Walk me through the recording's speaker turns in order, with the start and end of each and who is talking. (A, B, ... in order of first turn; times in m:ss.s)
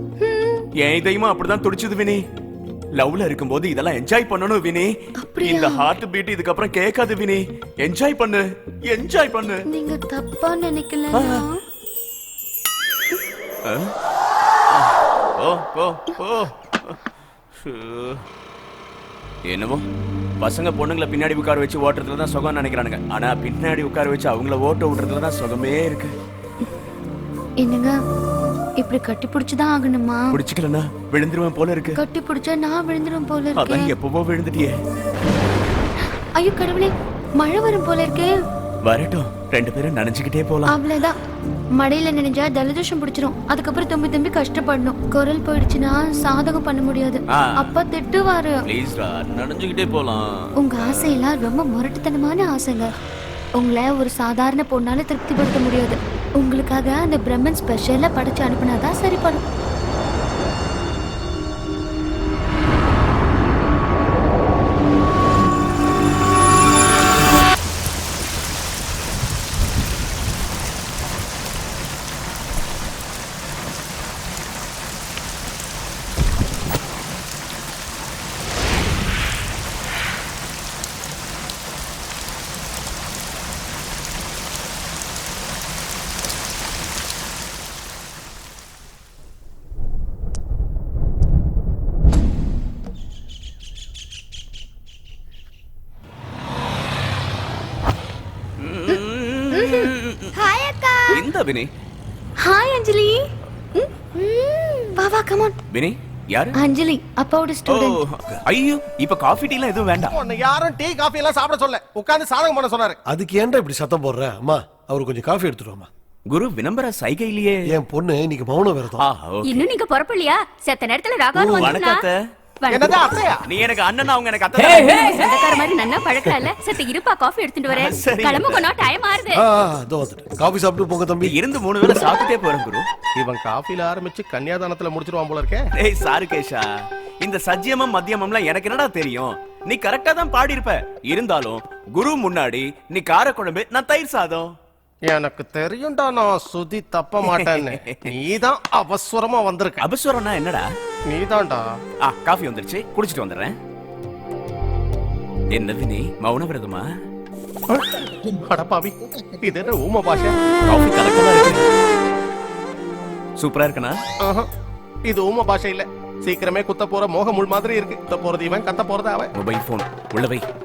0:00.2-0:00.6 A
0:00.8-0:02.2 B
0:03.0-0:09.6 B
0:05.2-0:05.9 A
0:09.7-0:11.6 A
0:11.1-0:11.4 B
0:13.6-0:13.9 B
0:15.4-0:17.0 B
0:17.6-0:18.2 B
0:19.4-0:19.8 B
0:20.4-0:26.1 B
0:27.6-0:28.0 A
0:28.8-0:30.2 A
0:30.3-0:32.0 B
0:32.0-0:33.9 A
0:33.6-0:34.7 B
0:36.4-0:38.3 A
0:38.8-0:40.8 B
0:40.7-0:41.2 A
0:41.8-0:48.6 A
0:47.3-0:47.7 B
0:48.7-0:51.2 B
0:50.6-0:52.9 A
0:53.6-0:59.4 A
1:38.6-1:40.4 B
1:39.5-1:41.2 A
1:41.1-1:41.7 B
1:42.4-1:43.2 A
1:43.8-1:45.5 A
1:45.7-1:46.5 B
1:46.6-1:48.0 A
1:47.7-1:50.1 B
1:50.1-1:53.0 C
1:53.1-1:55.9 D
1:56.3-1:57.8 B
1:57.7-1:59.0 D
1:59.0-1:59.6 B
1:59.4-2:02.0 E
2:01.3-2:01.7 D
2:01.6-2:02.2 B
2:02.6-2:03.0 E
2:02.7-2:03.4 C
2:03.4-2:05.2 B
2:04.8-2:09.4 E
2:07.7-2:08.7 B
2:09.3-2:11.3 D
2:11.2-2:12.8 B
2:13.2-2:15.6 C
2:15.8-2:16.6 B
2:17.2-2:24.5 B
2:25.0-2:29.8 C
2:27.2-2:28.1 B
2:29.8-2:30.6 B
2:31.1-2:31.6 C
2:32.0-2:33.5 B
2:35.5-2:36.8 B
2:37.7-2:40.3 C
2:40.7-2:41.6 B
2:43.4-2:44.0 B
2:44.2-2:44.5 C
2:45.0-2:49.3 C
2:49.3-2:50.4 B